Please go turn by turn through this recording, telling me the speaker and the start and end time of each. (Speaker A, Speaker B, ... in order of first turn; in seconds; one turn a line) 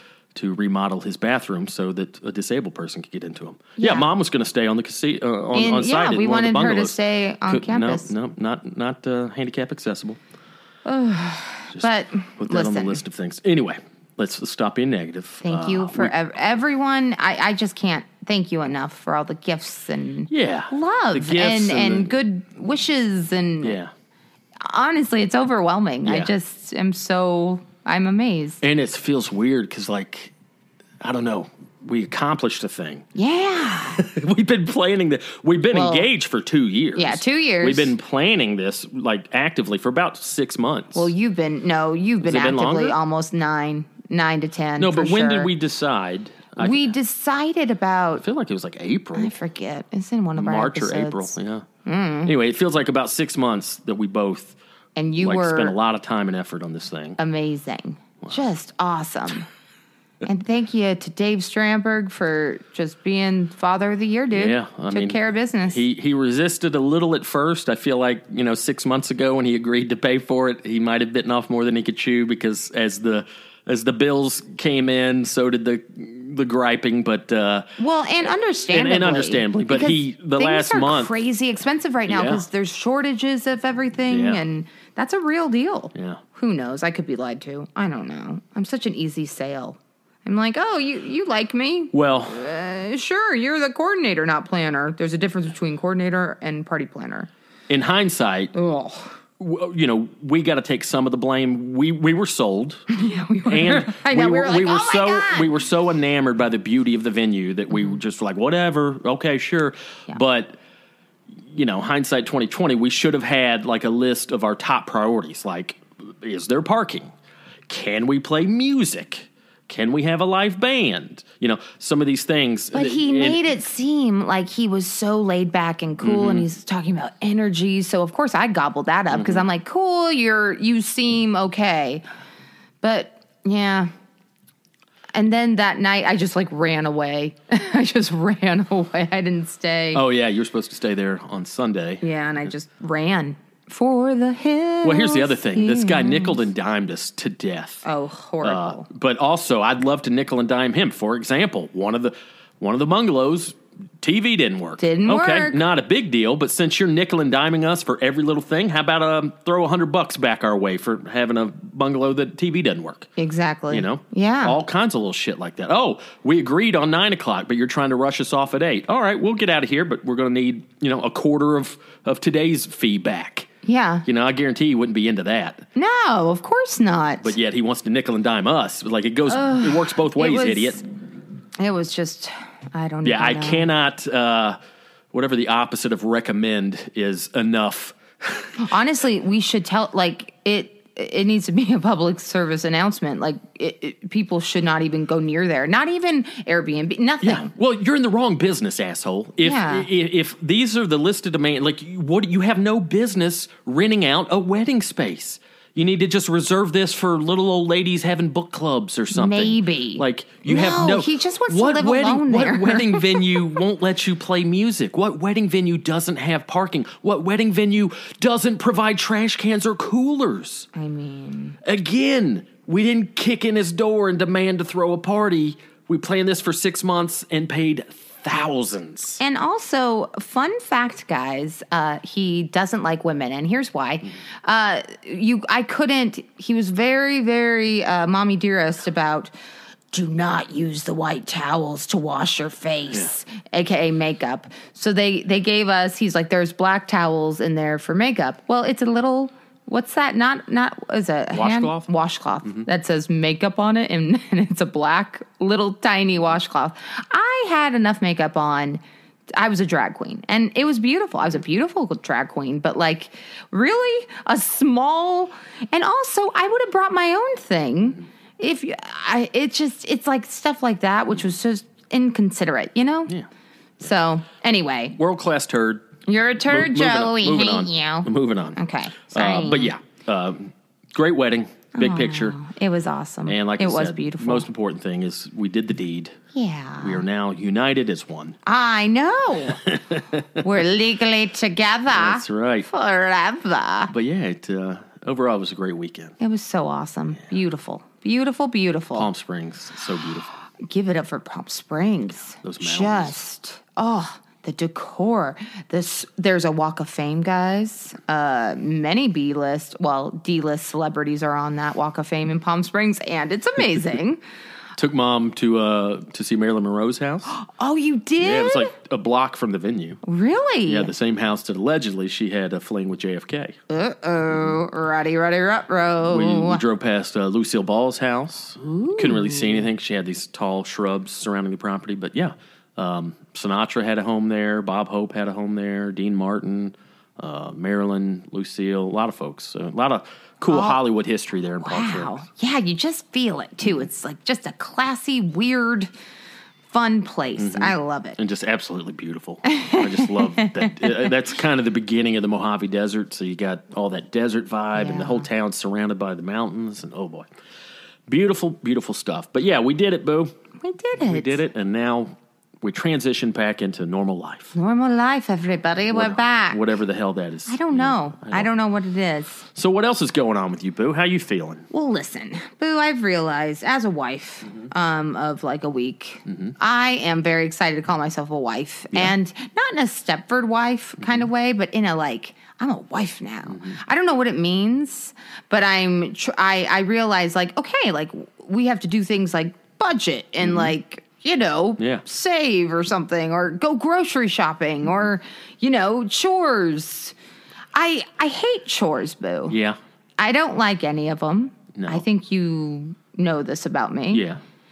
Speaker A: 0.3-10.2
Speaker B: 3.8-4.1
Speaker B: 5.5-8.1
Speaker B: 10.8-13.0
Speaker A: 11.7-16.1
Speaker B: 15.4-23.8
Speaker A: 20.3-22.1
Speaker A: 23.6-23.9
Speaker B: 24.6-28.6
Speaker A: 26.1-26.3
Speaker A: 28.6-30.3
Speaker A: 31.0-33.1
Speaker B: 33.1-34.0
Speaker A: 34.0-41.1
Speaker B: 35.7-36.1
Speaker B: 37.0-38.0
Speaker B: 41.0-45.5
Speaker A: 42.2-43.0
Speaker A: 44.8-46.9
Speaker B: 46.6-48.2
Speaker A: 48.2-49.3
Speaker B: 49.2-52.3
Speaker A: 50.4-51.7
Speaker A: 52.2-54.6
Speaker B: 55.0-55.8
Speaker A: 55.2-57.2
Speaker B: 57.2-59.5
Speaker B: 60.2-65.8
Speaker A: 64.3-65.2
Speaker A: 65.7-77.7
Speaker B: 77.8-97.3
Speaker A: 78.7-81.1
Speaker A: 82.1-82.4
Speaker A: 84.1-84.4
Speaker A: 86.0-86.2
Speaker A: 91.9-92.4
Speaker A: 97.7-98.5
Speaker B: 98.5-99.1
Speaker A: 99.4-102.8
Speaker B: 102.9-105.5
Speaker A: 103.5-110.6
Speaker A: 111.4-117.1
Speaker A: 117.7-123.5
Speaker B: 122.7-132.1
Speaker A: 126.0-126.5
Speaker A: 129.1-129.5
Speaker B: 132.8-133.9
Speaker B: 135.1-140.0
Speaker A: 139.9-142.0
Speaker B: 142.0-146.4
Speaker A: 144.8-147.8
Speaker B: 147.8-148.9
Speaker A: 148.4-163.1
Speaker B: 154.8-155.6
Speaker B: 163.2-164.6
Speaker A: 163.7-173.5
Speaker B: 173.6-174.1
Speaker A: 174.1-175.7
Speaker B: 175.8-177.3
Speaker A: 177.2-180.8
Speaker B: 179.3-180.8
Speaker B: 181.6-183.7
Speaker A: 183.0-184.6
Speaker A: 185.1-188.6
Speaker B: 188.6-197.5
Speaker A: 197.2-220.7
Speaker B: 199.4-199.9
Speaker B: 209.1-213.5
Speaker B: 220.7-221.6
Speaker A: 221.6-229.2
Speaker B: 229.2-239.3
Speaker B: 239.9-258.8
Speaker A: 251.3-251.9
Speaker B: 259.3-273.1
Speaker B: 273.8-275.0
Speaker A: 274.9-282.4
Speaker B: 276.1-279.8
Speaker B: 281.8-284.5
Speaker A: 283.3-286.2
Speaker B: 286.3-287.0
Speaker A: 286.8-288.4
Speaker B: 288.5-289.6
Speaker A: 289.5-290.2
Speaker B: 290.4-293.9
Speaker A: 291.9-292.7
Speaker A: 293.9-296.2
Speaker B: 296.2-299.1
Speaker A: 298.9-300.3
Speaker B: 300.6-314.2
Speaker A: 302.4-303.2
Speaker A: 314.8-317.3
Speaker B: 317.3-318.7
Speaker A: 318.2-320.0
Speaker B: 320.0-320.9
Speaker A: 320.7-323.6
Speaker B: 323.7-326.6
Speaker A: 326.1-342.2
Speaker B: 328.6-329.7
Speaker B: 340.5-340.8
Speaker B: 341.6-345.9
Speaker B: 346.7-348.2
Speaker A: 347.4-357.3
Speaker B: 349.4-351.1
Speaker B: 354.8-355.3
Speaker A: 358.1-360.3
Speaker B: 360.6-361.4
Speaker A: 361.0-364.5
Speaker B: 364.5-366.6
Speaker A: 365.9-368.5
Speaker B: 367.5-369.5
Speaker A: 369.6-371.7
Speaker B: 371.7-397.1
Speaker A: 376.3-376.5
Speaker A: 390.4-390.7
Speaker A: 391.8-392.0
Speaker B: 397.7-399.6
Speaker A: 399.5-399.8
Speaker B: 400.2-404.3
Speaker A: 401.8-402.0
Speaker A: 404.1-404.4